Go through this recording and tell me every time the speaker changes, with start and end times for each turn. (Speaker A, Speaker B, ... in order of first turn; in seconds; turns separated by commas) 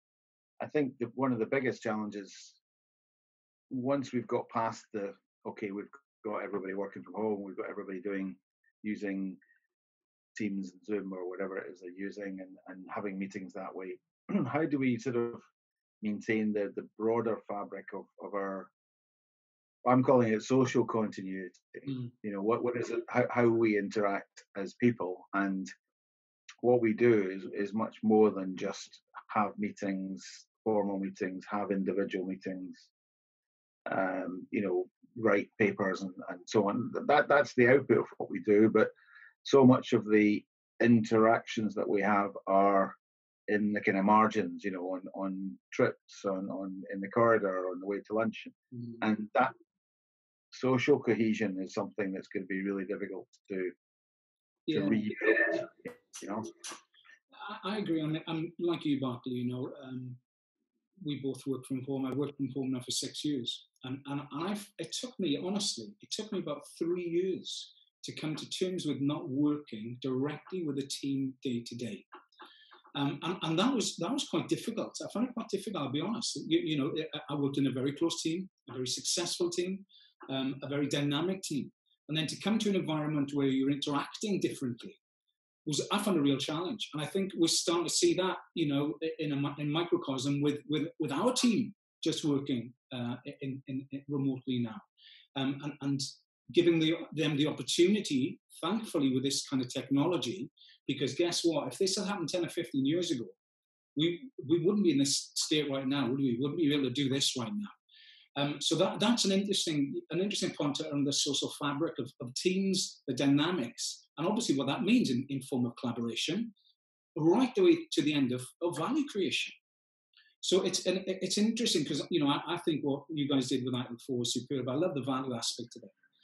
Speaker A: 0.6-2.6, Speaker A: 3.7-9.4, Speaker A: 10.3-15.4, Speaker A: 16.0-18.7, Speaker A: 19.8-25.7, Speaker A: 26.6-32.9, Speaker A: 33.9-38.9, Speaker A: 39.4-43.0, Speaker A: 43.5-49.5, Speaker B: 48.7-49.0, Speaker A: 50.5-53.7, Speaker B: 54.7-55.1, Speaker A: 54.7-56.5, Speaker B: 57.4-60.2, Speaker B: 61.0-72.1, Speaker B: 73.0-85.0, Speaker B: 85.7-94.8, Speaker B: 95.4-103.4, Speaker B: 104.0-107.7, Speaker B: 108.4-116.5, Speaker B: 117.2-119.5, Speaker B: 120.4-126.0